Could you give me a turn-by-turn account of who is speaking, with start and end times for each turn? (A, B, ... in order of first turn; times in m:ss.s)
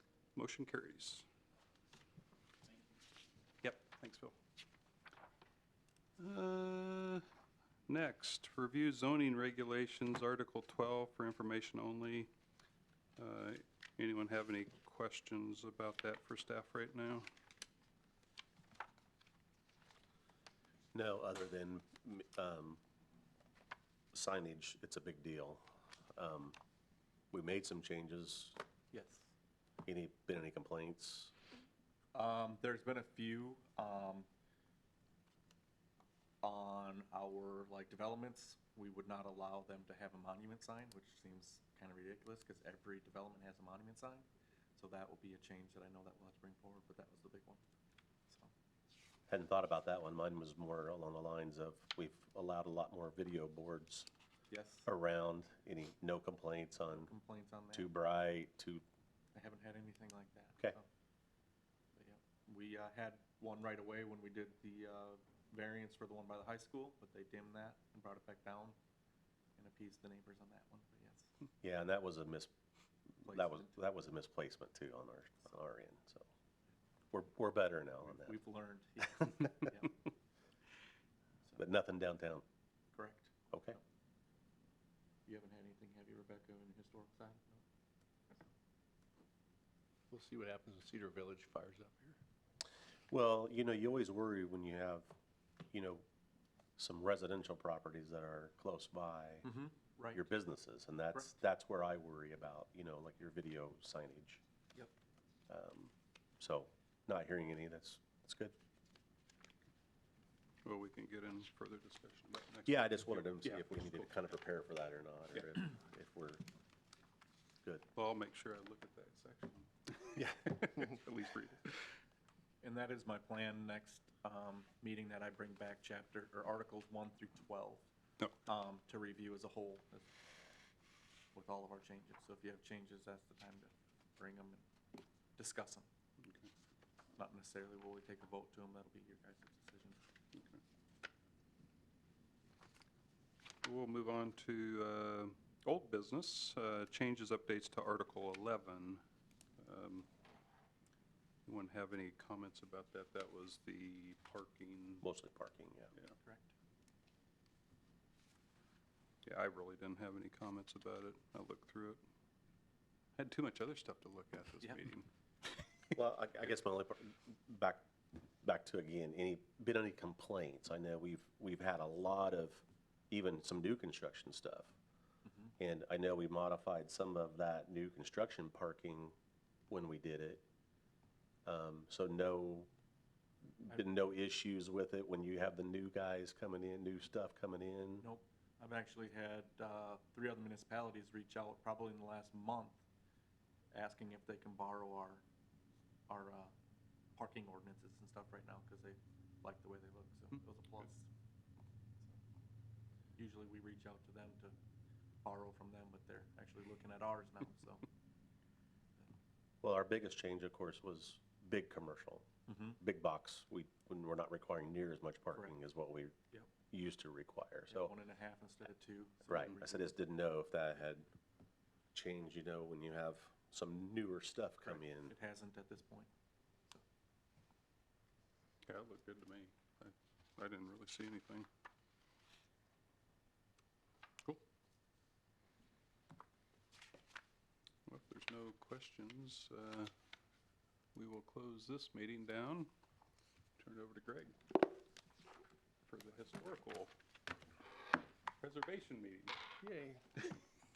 0:00.3-0:01.2 A
0:03.6-0:04.4 A
0:06.2-0:07.2 A
0:07.9-0:12.3 A
0:13.2-0:17.3 A
0:20.9-0:22.8 B
0:24.1-0:25.6 B
0:26.2-0:26.6 B
0:27.3-0:28.6 B
0:28.9-0:29.3 C
0:29.8-0:31.3 B
0:32.1-0:34.3 C
0:36.4-0:44.2 C
0:44.8-0:47.6 C
0:49.3-0:54.1 B
0:54.5-0:54.8 C
0:54.8-0:57.1 B
0:56.9-0:57.9 C
0:57.7-0:58.8 B
0:59.3-1:00.8 C
1:02.0-1:08.8 C
1:09.6-1:11.3 C
1:11.6-1:12.5 B
1:13.2-1:16.3 B
1:13.2-1:13.7 C
1:17.1-1:18.4 B
1:18.1-1:19.9 C
1:21.6-1:22.4 B
1:22.9-1:23.8 C
1:23.5-1:23.8 B
1:25.2-1:27.6 C
1:30.1-1:32.2 D
1:33.1-1:35.1 B
1:35.7-1:36.0 B
1:36.8-1:39.5 B
1:39.4-1:40.2 C
1:40.1-1:44.4 B
1:45.5-1:48.5 B
1:50.6-1:54.2 A
1:52.6-1:56.4 B
1:57.9-2:01.8 A
2:02.6-2:07.9 C
2:08.4-2:10.1 C
2:11.3-2:14.6 C
2:15.4-2:15.9 C
2:16.2-2:16.5 A
2:17.2-2:20.0 C
2:20.3-2:20.6 A
2:23.6-2:29.0 A
2:29.6-2:30.1 A
2:31.4-2:35.0 A
2:35.0-2:35.9 B
2:36.2-2:36.5 C
2:39.2-2:42.0 A
2:43.2-2:45.1 A
2:45.9-2:47.9 B
2:48.4-2:54.7 B
2:55.2-2:55.5 C
2:55.6-2:59.1 B
2:59.7-3:00.4 B
3:01.4-3:02.7 B
3:03.5-3:08.1 B
3:08.0-3:12.8 C
3:13.7-3:15.2 C
3:16.1-3:16.5 C
3:17.2-3:21.1 C
3:23.2-3:24.5 C
3:25.2-3:27.8 C
3:29.6-3:32.3 B
3:32.5-3:32.8 C
3:32.8-3:36.2 B
3:36.7-3:37.9 B
3:37.7-3:39.9 C
3:39.3-3:41.1 B
3:41.9-3:45.1 B
3:44.6-3:46.1 C
3:48.6-3:51.5 A
3:57.8-3:59.9 A
4:00.9-4:02.7 A
4:03.6-4:04.4 A
4:05.9-4:06.9 A
4:08.4-4:09.4 A
4:09.6-4:10.2 D